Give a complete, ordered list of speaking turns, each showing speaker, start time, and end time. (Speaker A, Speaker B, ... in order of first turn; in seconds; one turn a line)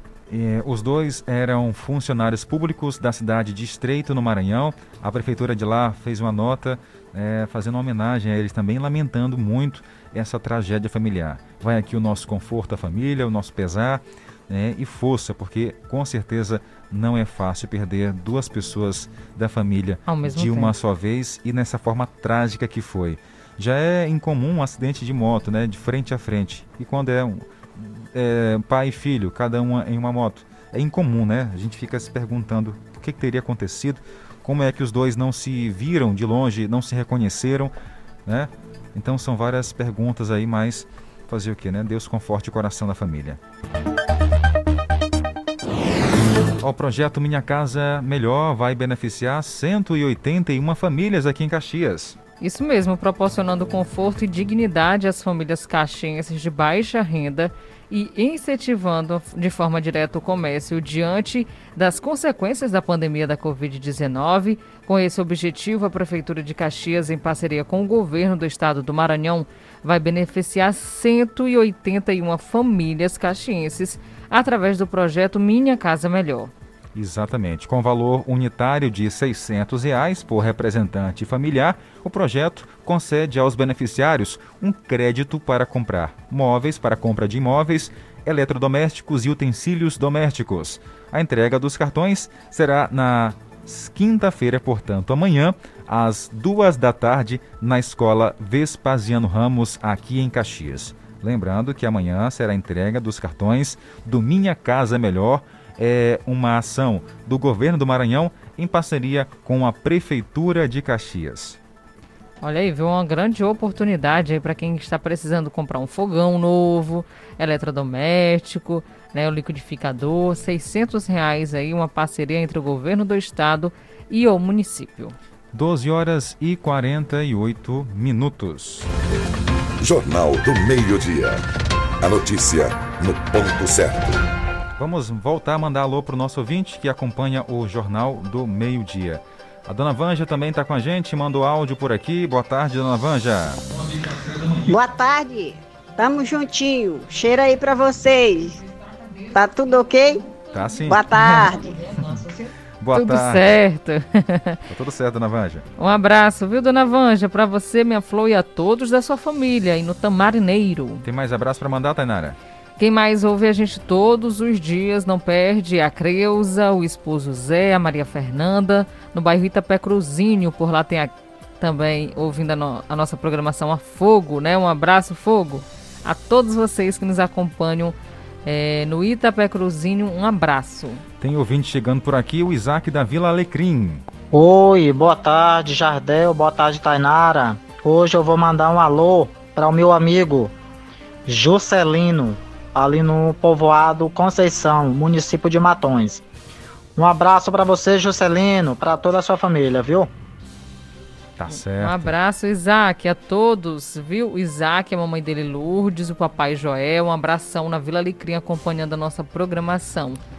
Speaker A: 0.3-37.7
Speaker B: 20.1-20.7
Speaker A: 38.2-43.4
Speaker A: 46.6-52.2
Speaker B: 52.4-76.5
Speaker A: 76.9-111.6
Speaker B: 112.4-125.1
Speaker A: 125.5-128.9
Speaker C: 129.8-131.4
Speaker C: 132.0-134.2
Speaker A: 134.8-143.6
Speaker D: 144.7-148.6
Speaker D: 149.3-150.2
Speaker A: 150.5-152.2
Speaker D: 150.9-151.6
Speaker A: 152.8-153.5
Speaker B: 152.9-154.6
Speaker A: 154.7-155.6
Speaker B: 155.8-161.0
Speaker A: 161.0-162.4
Speaker B: 162.8-181.0
Speaker A: 181.2-184.0
Speaker E: 184.3-190.5
Speaker E: 191.3-196.2
Speaker E: 196.9-200.1
Speaker A: 201.4-202.1
Speaker B: 201.5-210.2